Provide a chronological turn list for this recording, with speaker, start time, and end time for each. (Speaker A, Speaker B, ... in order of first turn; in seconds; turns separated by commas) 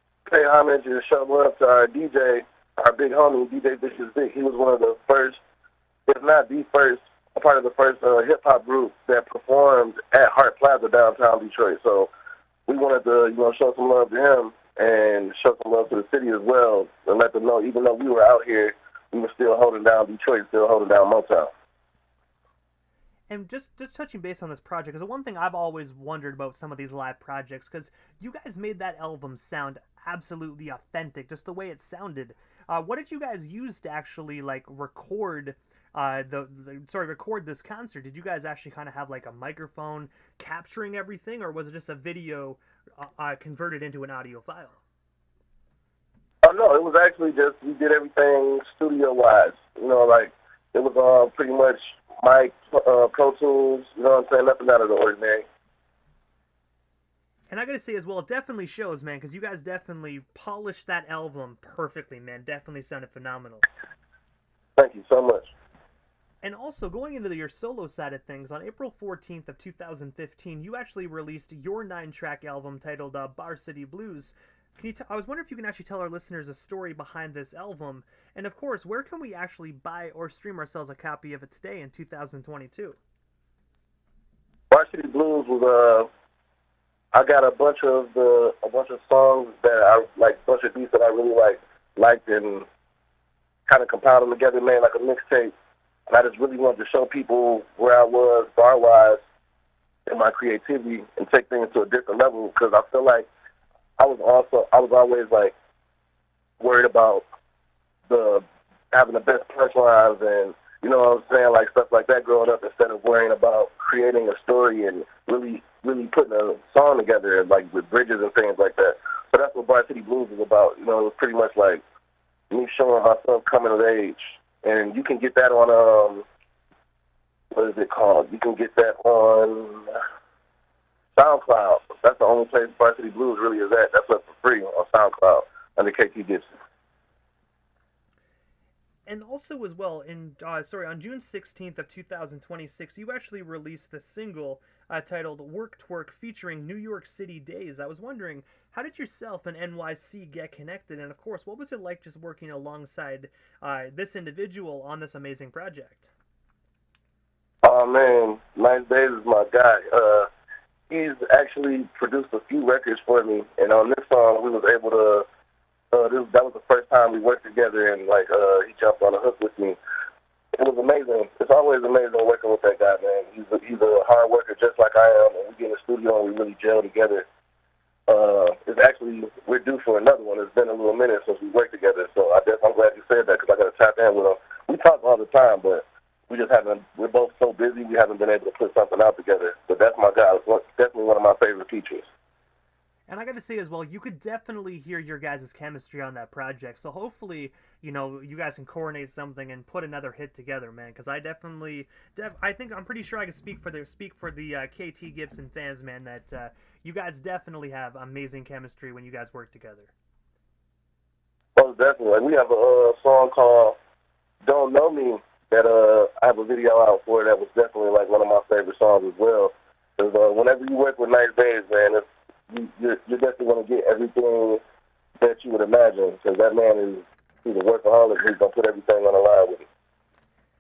Speaker A: 0.3-5.4, Speaker A: 6.1-12.1, Speaker A: 12.7-21.5, Speaker B: 23.3-44.8, Speaker A: 46.5-55.5, Speaker B: 57.5-63.7, Speaker A: 64.8-65.5, Speaker B: 66.4-83.0, Speaker A: 84.7-86.1, Speaker A: 87.1-92.7, Speaker A: 93.7-95.5, Speaker A: 96.1-99.2, Speaker A: 100.1-103.3, Speaker A: 104.0-105.6, Speaker A: 106.6-107.3, Speaker A: 108.1-121.8, Speaker A: 122.5-126.3, Speaker A: 127.5-129.9, Speaker A: 131.2-136.5, Speaker B: 139.1-156.1, Speaker A: 157.6-160.3, Speaker A: 160.9-165.3, Speaker A: 165.9-169.8, Speaker A: 170.6-177.3, Speaker A: 178.1-192.1, Speaker B: 193.1-209.9, Speaker A: 211.6-213.8, Speaker A: 214.4-224.6, Speaker A: 225.2-229.7